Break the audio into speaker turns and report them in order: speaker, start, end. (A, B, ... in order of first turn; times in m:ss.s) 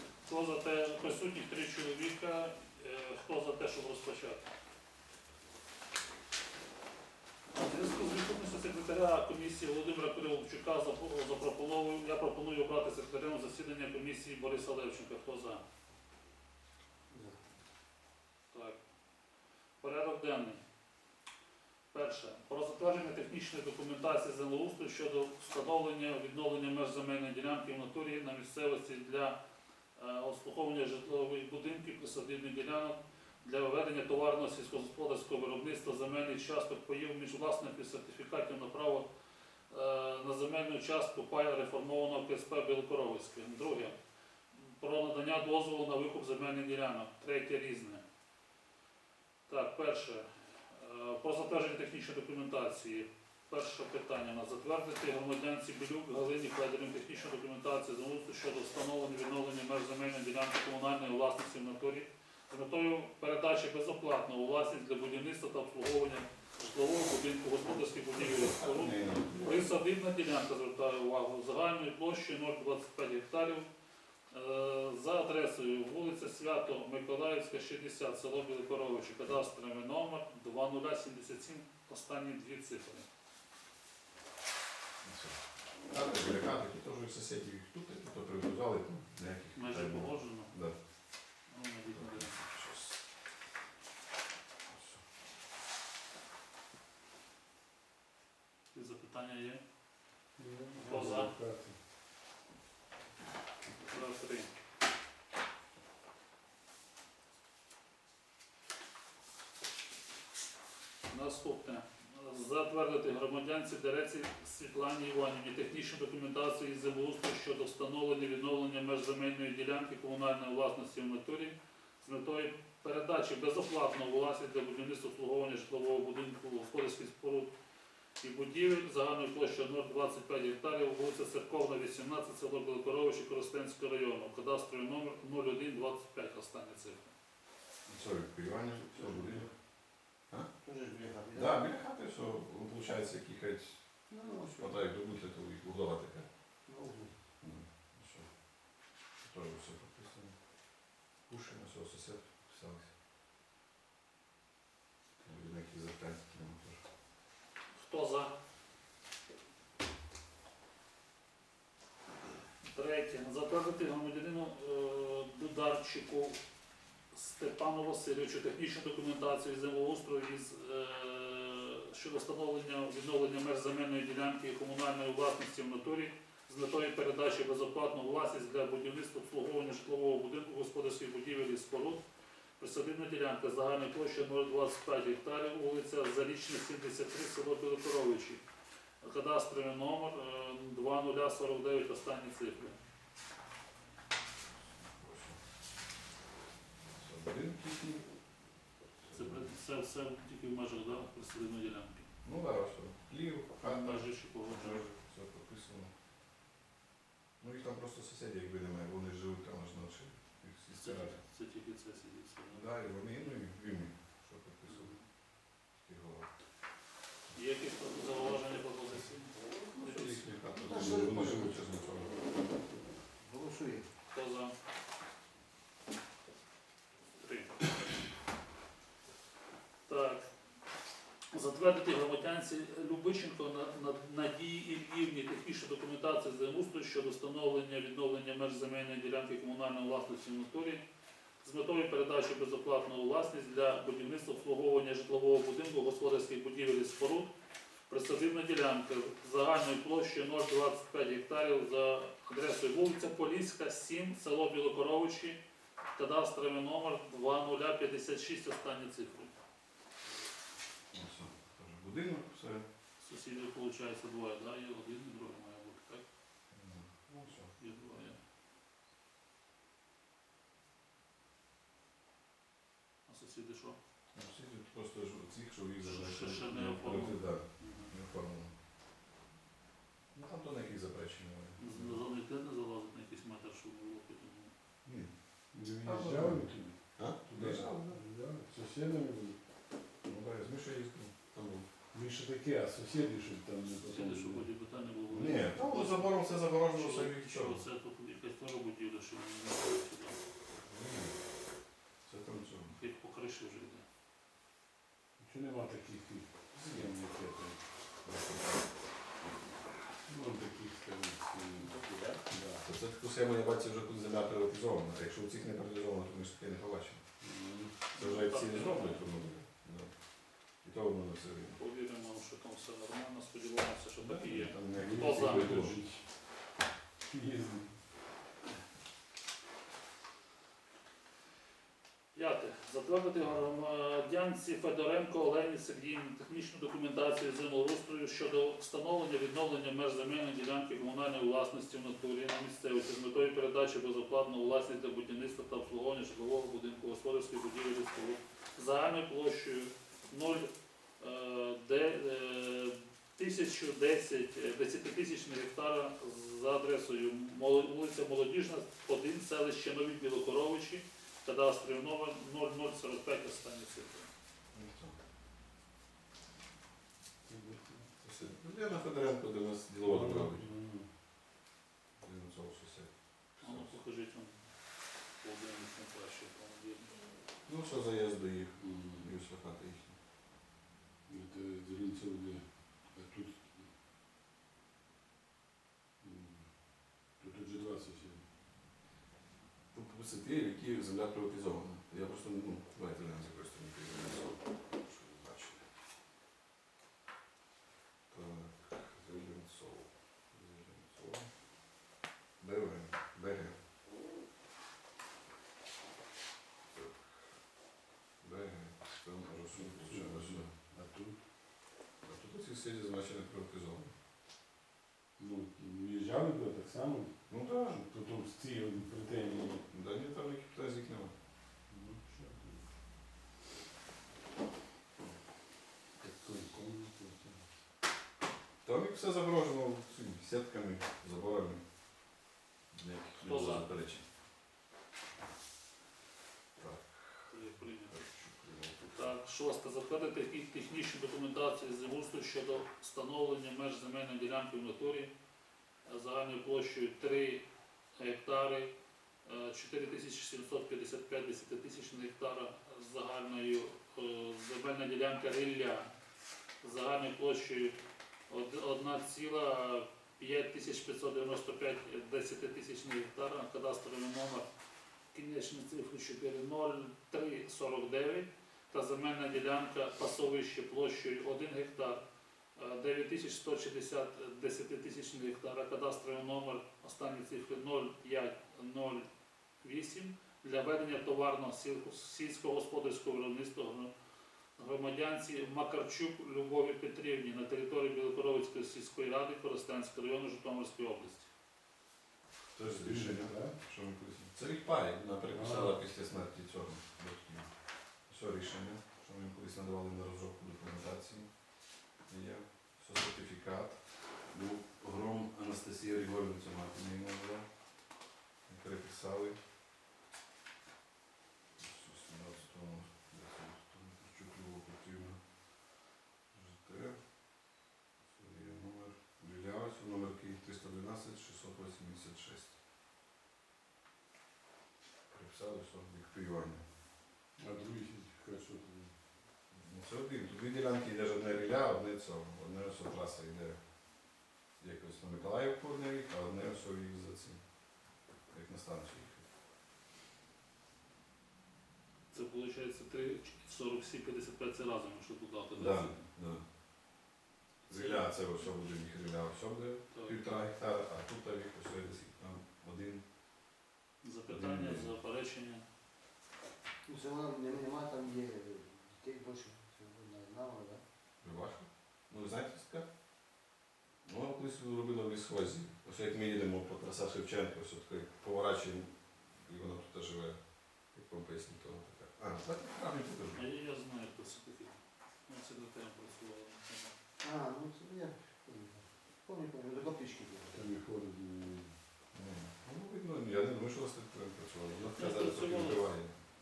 0:00.2-0:04.5 A
0:07.5-0:15.6 A
0:17.1-0:17.4 B
0:18.5-0:18.8 A
0:19.8-0:20.6 A
0:21.9-0:29.4 A
0:30.0-0:39.0 A
0:39.7-0:43.9 A
0:44.5-0:48.0 A
0:49.5-1:13.7 A
1:08.0-1:09.7 C
1:14.3-1:23.1 A
1:25.0-1:30.7 C
1:29.5-1:30.5 A
1:31.5-1:32.4 A
1:31.9-1:33.0 C
1:34.7-1:35.0 C
1:38.7-1:39.6 A
1:40.4-1:41.8 D
1:40.8-1:41.3 A
1:43.9-1:44.5 A
1:51.1-2:07.5 A
2:08.2-2:17.1 A
2:17.8-2:19.5 C
2:18.9-2:19.5 B
2:20.6-2:21.7 B
2:21.3-2:23.8 C
2:24.1-2:24.8 B
2:24.3-2:26.3 C
2:26.6-2:27.1 B
2:27.4-2:28.3 C
2:29.2-2:30.3 C
2:31.2-2:32.9 C
2:35.2-2:36.8 C
2:37.7-2:38.3 A
2:42.6-2:46.4 A
2:47.1-3:02.0 A
3:02.6-3:08.4 A
3:09.0-3:12.8 A
3:14.6-3:15.4 C
3:17.0-3:18.1 C
3:19.0-3:19.6 C
3:19.1-3:22.1 A
3:22.2-3:25.9 C
3:23.6-3:24.8 A
3:27.4-3:31.2 C
3:30.8-3:32.6 A
3:32.5-3:34.9 C
3:34.7-3:35.0 A
3:35.7-3:36.3 C
3:37.3-3:40.3 A
3:39.7-3:42.2 C
3:40.6-3:41.7 B
3:43.2-3:43.9 B
3:44.1-3:44.5 A
3:47.2-3:47.6 A
3:49.9-3:50.2 A
3:51.3-4:00.8 A
4:01.4-4:07.3 A
4:07.9-4:15.4 A
4:15.9-4:19.3 A
4:20.9-4:22.6 C
4:23.0-4:26.0 A
4:26.5-4:27.5 C
4:27.6-4:28.2 A
4:33.1-4:33.8 A
4:34.1-4:38.5 C
4:35.8-4:37.9 A
4:40.1-4:42.0 C
4:41.6-4:44.5 A
4:44.8-4:45.1 C
4:45.5-4:49.4 D
4:45.8-4:48.0 C
4:50.0-4:51.6 C
4:51.9-4:54.5 D
4:53.8-5:00.2 A
4:55.1-4:57.7 C
5:00.6-5:01.2 C
5:02.0-5:02.7 C
5:02.7-5:03.8 A
5:05.2-5:07.6 D
5:06.6-5:06.9 C
5:08.0-5:08.6 C
5:10.0-5:11.8 D
5:11.6-5:12.2 B
5:12.3-5:12.7 D
5:12.6-5:17.0 C
5:17.2-5:17.8 D
5:17.9-5:19.0 A
5:18.0-5:19.9 C
5:20.6-5:21.6 C
5:21.6-5:25.5 A
5:24.0-5:25.8 C
5:24.7-5:26.2 D
5:27.0-5:27.8 D
5:32.1-6:04.1 A
6:04.5-6:05.0 C
6:07.3-6:07.9 D
6:08.0-6:10.5 C
6:09.8-6:10.9 D
6:12.0-6:13.8 C
6:13.4-6:14.5 A
6:15.2-6:17.0 A
6:17.4-6:20.0 C
6:18.6-6:19.1 D
6:21.0-6:23.7 D
6:26.0-6:28.3 D
6:29.7-6:35.6 C
6:38.1-6:41.3 C
6:42.4-6:43.5 C
6:46.7-6:47.1 C
6:48.2-6:50.5 C
6:49.5-6:51.2 D
6:52.0-6:53.9 C
6:55.2-6:59.6 D
6:57.3-6:57.8 C
6:59.7-7:01.1 C
7:01.7-7:02.7 D
7:06.0-7:07.5 D
7:08.6-7:11.6 C
7:12.7-7:14.0 C
7:13.2-7:13.7 A
7:16.6-7:19.1 C
7:17.3-7:17.9 A
7:18.9-7:25.1 A
7:25.9-7:27.4 A
7:28.0-7:28.7 A
7:29.2-7:35.9 A
7:36.6-7:37.8 A
7:38.3-7:44.5 A
7:45.1-7:52.0 A
7:52.6-7:59.1 A
7:59.6-8:03.9 A
8:04.6-8:11.3 A
8:12.5-8:17.5 C
8:12.6-8:13.6 D
8:15.3-8:15.8 D
8:18.0-8:21.3 C
8:22.1-8:27.5 C
8:28.5-8:29.4 C
8:31.6-8:35.2 C
8:36.3-8:37.0 C
8:38.0-8:42.6 C
8:45.1-8:46.6 C
8:47.4-8:49.0 D
8:49.5-8:53.6 C
8:54.6-8:57.4 C
8:58.3-8:59.2 C
9:02.1-9:06.0 A
9:05.5-9:06.4 C
9:07.7-9:13.0 C
9:07.7-9:08.0 A
9:09.9-9:10.2 A
9:14.0-9:15.6 A
9:14.3-9:14.9 C
9:16.8-9:20.8 B
9:21.2-9:22.8 C
9:24.0-9:33.4 C
9:33.3-9:36.9 A
9:37.2-9:40.6 B
9:40.5-9:41.8 D
9:42.1-9:46.2 C
9:44.9-9:45.9 A